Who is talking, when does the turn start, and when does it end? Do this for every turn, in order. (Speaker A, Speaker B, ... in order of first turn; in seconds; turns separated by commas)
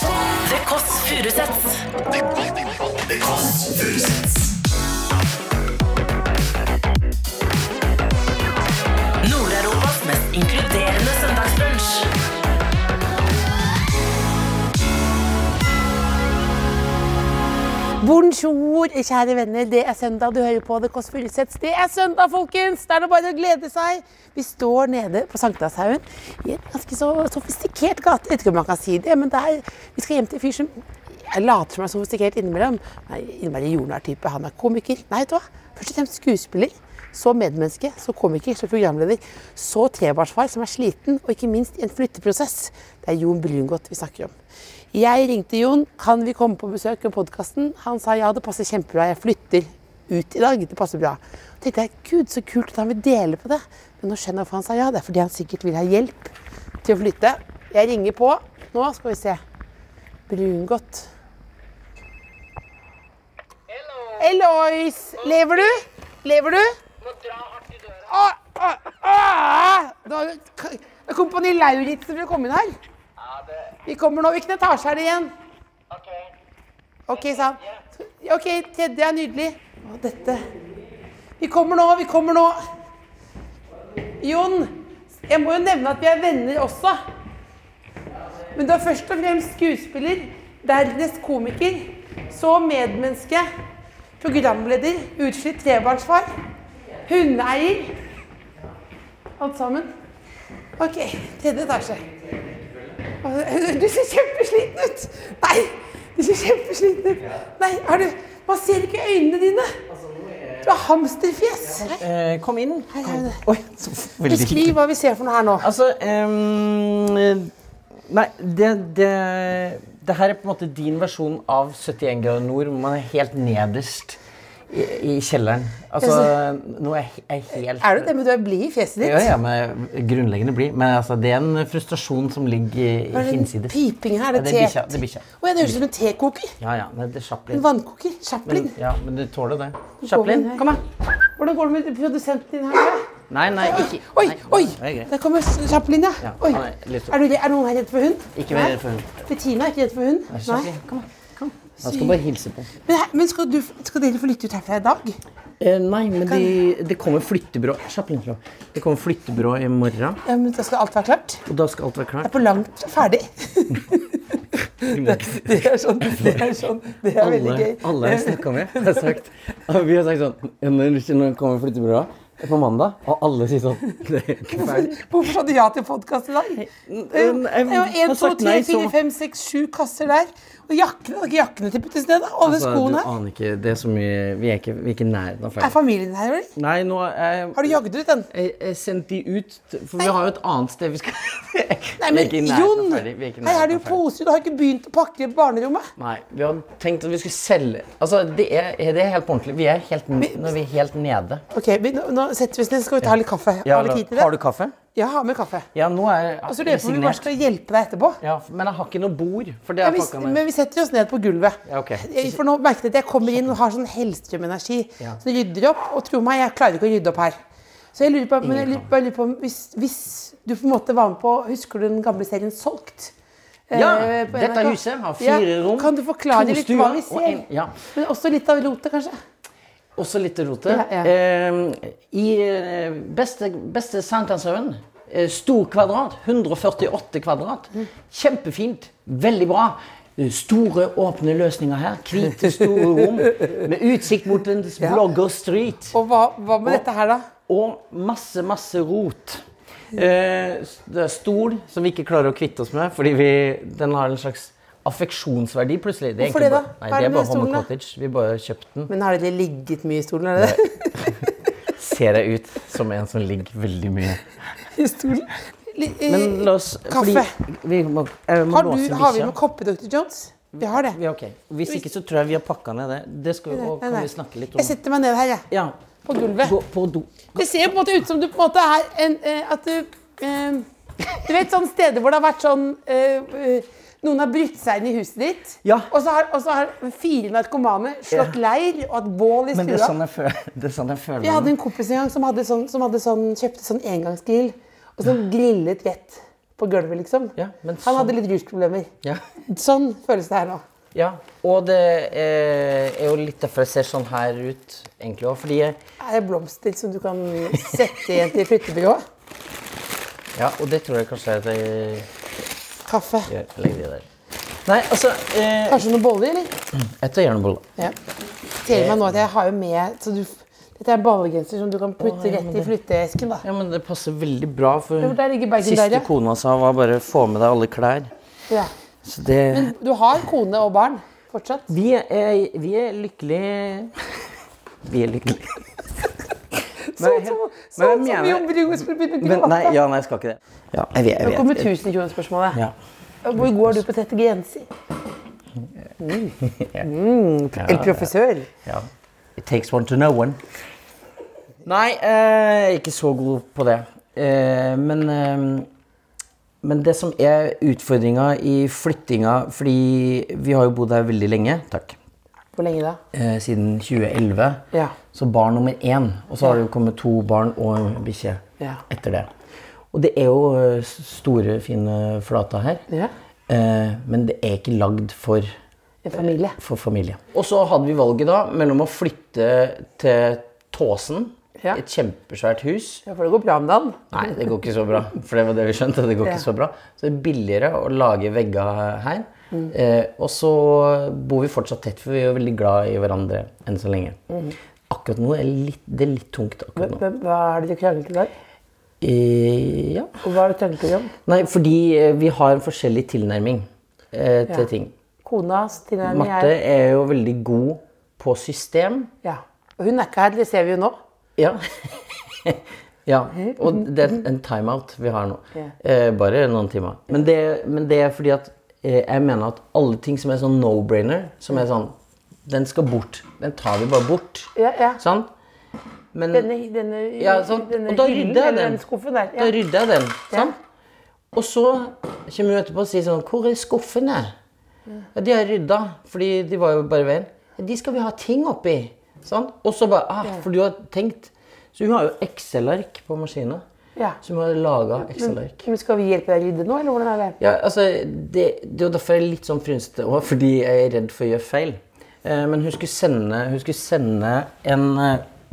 Speaker A: 0.4-4.5, Speaker A: 9.2-12.1, Speaker B: 18.0-44.3, Speaker B: 44.9-56.3, Speaker B: 56.8-59.4, Speaker B: 60.3-61.1, Speaker B: 64.1-66.7, Speaker B: 67.9-72.8, Speaker B: 73.8-75.3, Speaker B: 77.1-80.5, Speaker B: 81.4-82.6, Speaker B: 84.2-87.0, Speaker B: 88.5-93.5, Speaker B: 94.2-96.3, Speaker B: 97.0-98.0, Speaker B: 99.4-99.9, Speaker B: 100.8-102.1, Speaker B: 103.2-109.8, Speaker C: 109.9-110.6, Speaker B: 110.6-112.0, Speaker C: 111.8-114.7, Speaker B: 112.9-113.4, Speaker B: 114.2-115.7, Speaker C: 115.6-117.5, Speaker C: 118.1-128.1, Speaker B: 126.0-126.3, Speaker B: 127.8-129.3, Speaker C: 129.0-133.8, Speaker B: 133.1-136.6, Speaker C: 134.3-135.8, Speaker C: 136.6-137.7, Speaker B: 137.5-138.7, Speaker C: 138.4-140.8, Speaker B: 140.0-140.7, Speaker B: 141.4-143.1, Speaker C: 143.3-145.1, Speaker B: 143.6-150.7, Speaker C: 146.2-147.2, Speaker C: 148.3-149.3, Speaker C: 150.3-152.7, Speaker B: 151.8-152.2, Speaker B: 152.8-155.2, Speaker C: 155.6-160.2, Speaker B: 160.2-161.4, Speaker C: 161.4-162.3, Speaker B: 162.2-164.2, Speaker B: 164.8-169.2, Speaker C: 164.8-166.6, Speaker C: 167.2-175.0, Speaker B: 174.5-183.1, Speaker C: 176.5-178.9, Speaker C: 182.4-185.7, Speaker B: 185.6-186.5, Speaker C: 186.6-187.8, Speaker B: 187.5-188.3, Speaker C: 188.3-194.0, Speaker B: 192.0-195.9, Speaker C: 196.0-201.4, Speaker B: 201.5-204.3, Speaker C: 203.6-204.8, Speaker B: 204.9-205.7, Speaker C: 205.7-207.2, Speaker B: 206.5-208.2, Speaker C: 208.2-210.4, Speaker B: 209.8-217.4, Speaker C: 211.7-212.4, Speaker C: 213.2-213.5, Speaker B: 217.9-223.1, Speaker C: 218.4-218.8, Speaker B: 223.7-229.2, Speaker C: 223.7-227.8, Speaker C: 229.9-245.9, Speaker B: 230.7-231.1, Speaker B: 245.9-247.3, Speaker C: 247.5-258.9, Speaker B: 256.2-257.6, Speaker B: 258.9-261.3, Speaker C: 260.4-264.3, Speaker B: 264.6-267.4, Speaker C: 266.1-269.4, Speaker B: 268.5-271.0, Speaker C: 270.5-274.8, Speaker B: 273.5-275.4, Speaker C: 275.5-275.8, Speaker B: 276.0-276.6, Speaker C: 276.4-277.4, Speaker B: 277.4-280.6, Speaker B: 281.2-289.9, Speaker C: 285.6-285.9, Speaker C: 289.5-291.5, Speaker B: 291.2-298.9, Speaker C: 297.4-298.1, Speaker B: 299.4-300.6, Speaker C: 300.9-305.8, Speaker B: 306.0-309.0, Speaker C: 310.3-312.1, Speaker B: 312.9-313.3, Speaker C: 313.2-314.1, Speaker C: 314.6-315.8, Speaker B: 315.7-316.5, Speaker C: 316.7-317.7, Speaker B: 318.6-323.4, Speaker C: 318.6-319.2, Speaker C: 322.0-322.7, Speaker C: 323.4-328.1, Speaker B: 325.0-326.1, Speaker C: 329.0-329.7, Speaker B: 329.5-331.7, Speaker C: 331.7-334.2, Speaker C: 334.8-335.9, Speaker C: 336.6-341.7, Speaker B: 336.8-339.8, Speaker B: 341.2-342.6, Speaker B: 343.2-344.7, Speaker C: 343.4-343.8, Speaker B: 346.0-348.5, Speaker C: 346.4-346.8, Speaker C: 347.6-348.1, Speaker C: 348.6-350.4, Speaker C: 351.6-355.7, Speaker C: 356.6-362.0, Speaker B: 362.5-363.0, Speaker C: 363.1-369.3, Speaker C: 369.9-372.8, Speaker C: 373.5-375.5, Speaker B: 376.0-376.6, Speaker C: 376.6-383.0, Speaker B: 383.1-384.1, Speaker C: 384.1-394.2, Speaker C: 394.9-397.0, Speaker B: 396.8-398.3, Speaker C: 399.0-400.1, Speaker B: 400.2-401.1, Speaker C: 401.2-404.9, Speaker B: 405.2-406.5, Speaker C: 406.0-409.1, Speaker B: 409.2-410.9, Speaker C: 411.4-421.9, Speaker C: 422.4-425.3, Speaker B: 424.6-425.0, Speaker C: 426.1-426.5, Speaker B: 426.3-429.5, Speaker C: 427.2-428.8, Speaker C: 429.4-430.6, Speaker C: 431.3-434.3, Speaker C: 435.1-443.6, Speaker C: 444.2-445.6, Speaker B: 445.1-447.4, Speaker C: 447.4-455.3